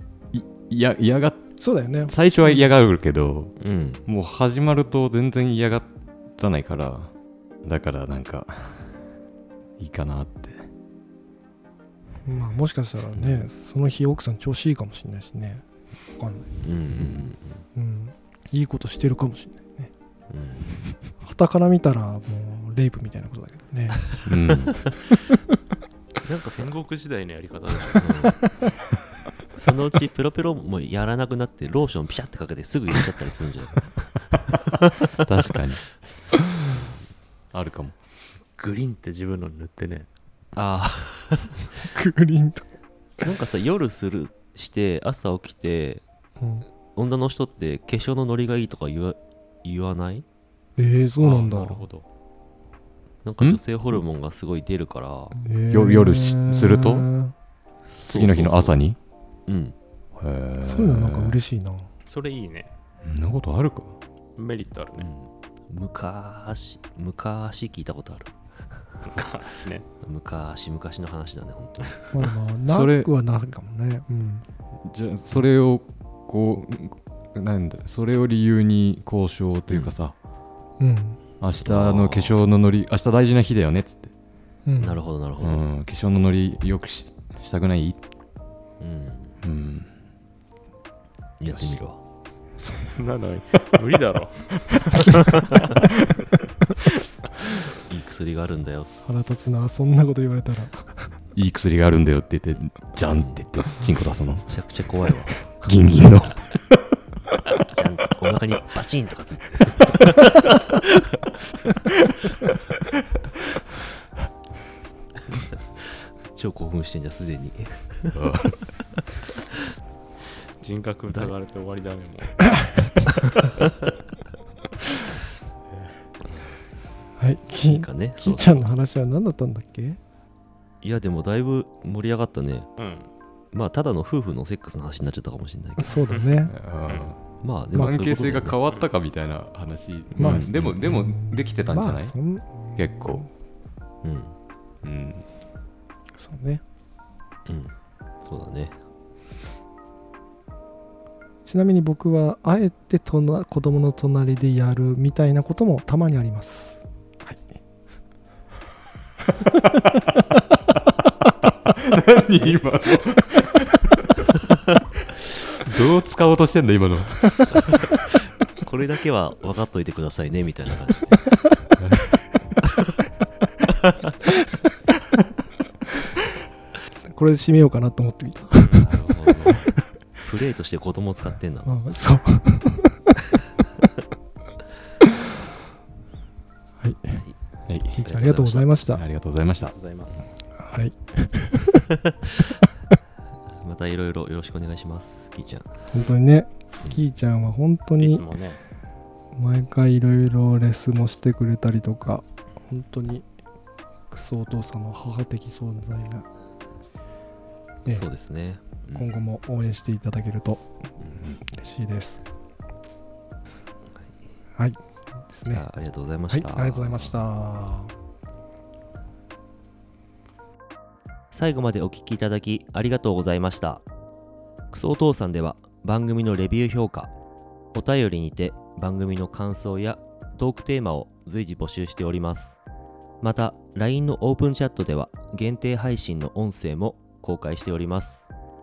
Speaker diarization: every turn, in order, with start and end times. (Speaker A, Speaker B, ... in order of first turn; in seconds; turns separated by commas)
Speaker A: 0.3-7.1, Speaker B: 1.6-2.1, Speaker C: 3.6-4.0, Speaker A: 7.6-9.0, Speaker A: 9.8-10.6, Speaker B: 12.2-15.6, Speaker B: 16.1-16.5, Speaker C: 16.6-17.6, Speaker A: 16.9-17.2, Speaker B: 17.7-19.9, Speaker C: 20.3-20.8, Speaker B: 21.1-24.6, Speaker A: 24.2-24.8, Speaker C: 26.2-26.7, Speaker D: 26.4-28.3, Speaker C: 27.9-28.4, Speaker C: 29.6-33.9, Speaker A: 35.2-35.8, Speaker A: 37.5-38.0, Speaker D: 38.6-40.1, Speaker C: 40.5-41.7, Speaker B: 41.8-42.6, Speaker C: 43.2-46.0, Speaker B: 46.4-46.7, Speaker C: 46.9-50.2, Speaker B: 50.8-51.8, Speaker D: 51.2-52.0, Speaker C: 53.2-55.4, Speaker B: 55.4-57.3, Speaker A: 55.7-57.1, Speaker C: 57.9-58.8, Speaker A: 58.0-59.0, Speaker C: 59.5-59.8, Speaker A: 60.1-61.4, Speaker B: 60.6-61.9, Speaker D: 62.0-62.7, Speaker A: 63.0-63.9, Speaker D: 64.3-65.0, Speaker C: 65.0-68.3, Speaker D: 69.0-69.8, Speaker C: 70.0-72.0, Speaker B: 72.1-74.5, Speaker A: 72.7-73.1, Speaker A: 74.8-80.1, Speaker C: 79.7-80.0, Speaker B: 80.8-81.2, Speaker A: 81.4-84.1, Speaker C: 81.5-82.4, Speaker B: 84.7-85.0, Speaker C: 84.8-85.7, Speaker A: 85.4-88.0, Speaker C: 88.8-89.3, Speaker A: 89.4-89.9, Speaker C: 91.4-92.0, Speaker A: 91.5-91.8, Speaker D: 92.9-95.8, Speaker C: 97.8-99.0, Speaker B: 99.0-101.0, Speaker A: 101.3-104.5, Speaker C: 103.1-103.4, Speaker C: 104.4-105.5, Speaker A: 105.5-106.6, Speaker C: 107.6-110.9, Speaker C: 116.3-118.2, Speaker A: 118.1-118.5, Speaker D: 120.6-122.9, Speaker B: 127.2-130.0, Speaker C: 127.6-128.6, Speaker C: 130.8-132.7, Speaker D: 132.8-133.1, Speaker C: 133.5-135.9, Speaker B: 135.8-136.5, Speaker D: 136.0-137.1, Speaker A: 136.5-142.2, Speaker C: 137.4-138.6, Speaker C: 140.2-140.8, Speaker B: 140.2-143.3, Speaker A: 142.8-143.2, Speaker C: 144.0-144.3, Speaker A: 144.8-145.2, Speaker B: 146.2-146.6, Speaker C: 147.5-148.8, Speaker B: 151.4-157.5, Speaker A: 161.7-164.0, Speaker A: 165.6-167.9, Speaker C: 168.0-171.3, Speaker A: 171.8-172.1, Speaker B: 177.0-178.9, Speaker D: 178.6-178.8, Speaker C: 178.8-179.7, Speaker C: 180.2-181.8, Speaker B: 181.7-183.0, Speaker B: 186.8-187.2, Speaker A: 187.7-188.0, Speaker B: 187.9-189.0, Speaker C: 187.9-188.8, Speaker A: 188.9-189.7, Speaker D: 189.7-190.4, Speaker B: 190.6-191.8, Speaker C: 193.6-195.7, Speaker B: 195.9-198.3, Speaker D: 198.0-198.6, Speaker B: 199.3-203.3, Speaker B: 204.1-206.2, Speaker C: 207.9-209.1, Speaker B: 208.9-210.7, Speaker B: 211.2-212.2, Speaker B: 214.6-215.7, Speaker C: 215.5-217.2, Speaker B: 216.3-217.9, Speaker C: 221.3-223.8, Speaker C: 224.7-227.1, Speaker C: 227.7-232.6, Speaker C: 233.2-238.3